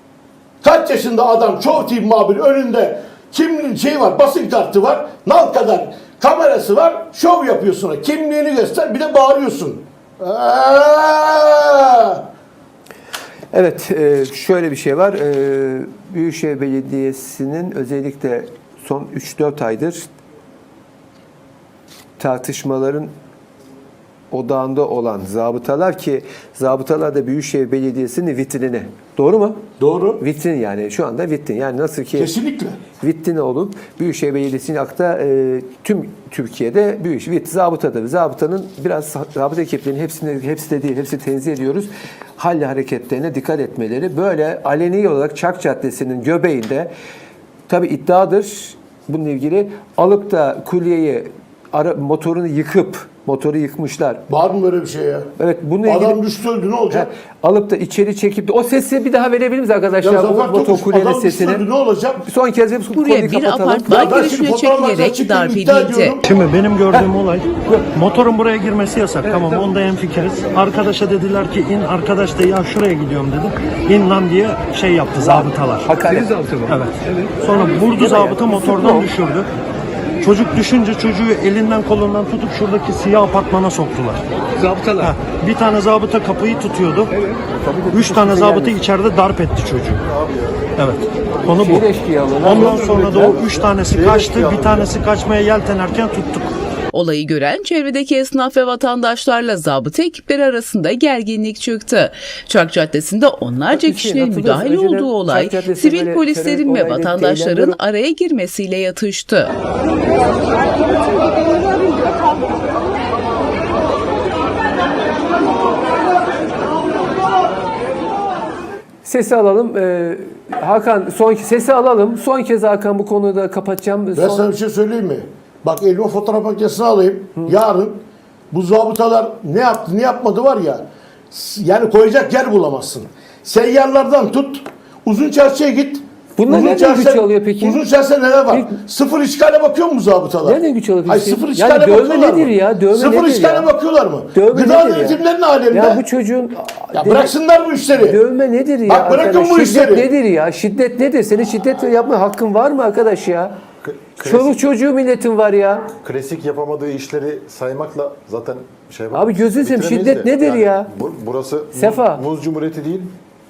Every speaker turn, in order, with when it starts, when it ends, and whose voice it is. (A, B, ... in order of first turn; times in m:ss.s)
0:00.6-0:12.2 A
0:13.5-0:20.0 B
0:22.2-0:23.1 B
0:24.3-0:29.6 B
0:29.8-0:30.2 A
0:30.2-0:32.3 B
0:32.2-0:32.8 A
0:33.0-0:46.9 B
0:47.7-0:54.2 B
0:54.3-0:55.3 A
0:55.4-0:56.2 B
0:55.8-0:57.1 A
0:56.9-1:01.6 B
1:00.0-1:02.2 A
1:02.2-1:04.1 B
1:02.9-1:06.2 C
1:03.9-1:06.3 A
1:06.2-1:15.9 D
1:09.2-1:09.6 B
1:15.2-1:16.8 B
1:16.7-1:19.5 D
1:17.4-1:19.1 B
1:20.2-1:24.2 D
1:24.6-1:25.1 B
1:25.0-1:27.2 D
1:27.6-1:28.8 B
1:27.9-1:30.0 D
1:29.9-1:30.7 E
1:30.8-1:31.9 D
1:31.5-1:33.4 B
1:32.4-1:36.5 D
1:32.5-1:35.0 E
1:36.9-1:49.5 C
1:43.7-1:47.8 B
1:59.0-2:04.4 B
2:04.2-2:26.0 A
2:16.4-2:17.8 B
2:18.5-2:18.8 B
2:20.4-2:23.7 B
2:24.3-2:27.3 B
2:26.9-2:28.2 A
2:28.0-2:33.6 B
2:28.9-2:30.1 A
2:33.8-2:34.6 E
2:34.2-2:35.9 B
2:36.0-2:43.2 E
2:39.1-2:40.9 B
2:41.8-2:42.2 B